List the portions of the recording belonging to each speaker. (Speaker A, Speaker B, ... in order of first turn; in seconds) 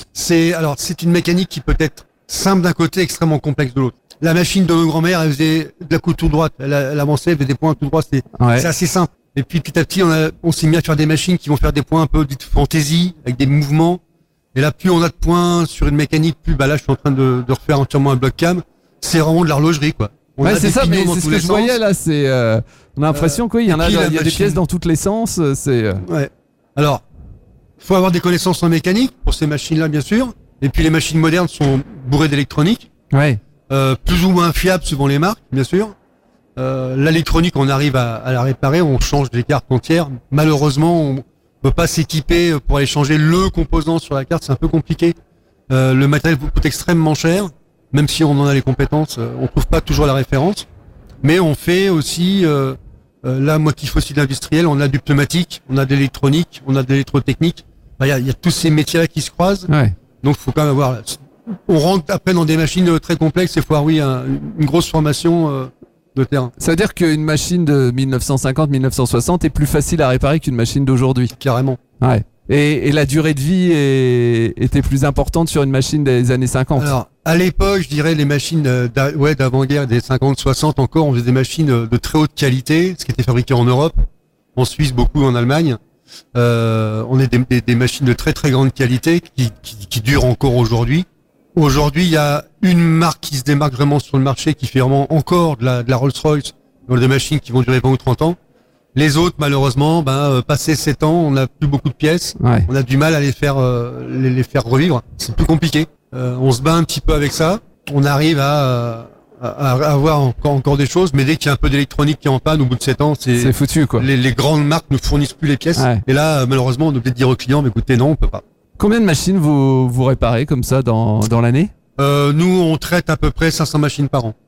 Speaker A: 0.1-14.0, 14.5-21.8, 23.1-24.6, 26.0-27.0, 27.8-32.9, 33.7-35.9, 36.6-45.1, 45.7-50.7, 51.2-59.7, 60.2-66.5, 71.4-71.8, 76.8-84.0, 84.6-85.8, 86.3-98.4, 98.9-118.4, 122.0-124.3
Speaker B: 8.4-8.7, 20.4-26.0, 33.1-33.4, 59.7-59.9, 66.6-71.3, 72.0-76.9, 102.4-102.7, 113.4-114.1, 115.8-116.0, 118.8-121.7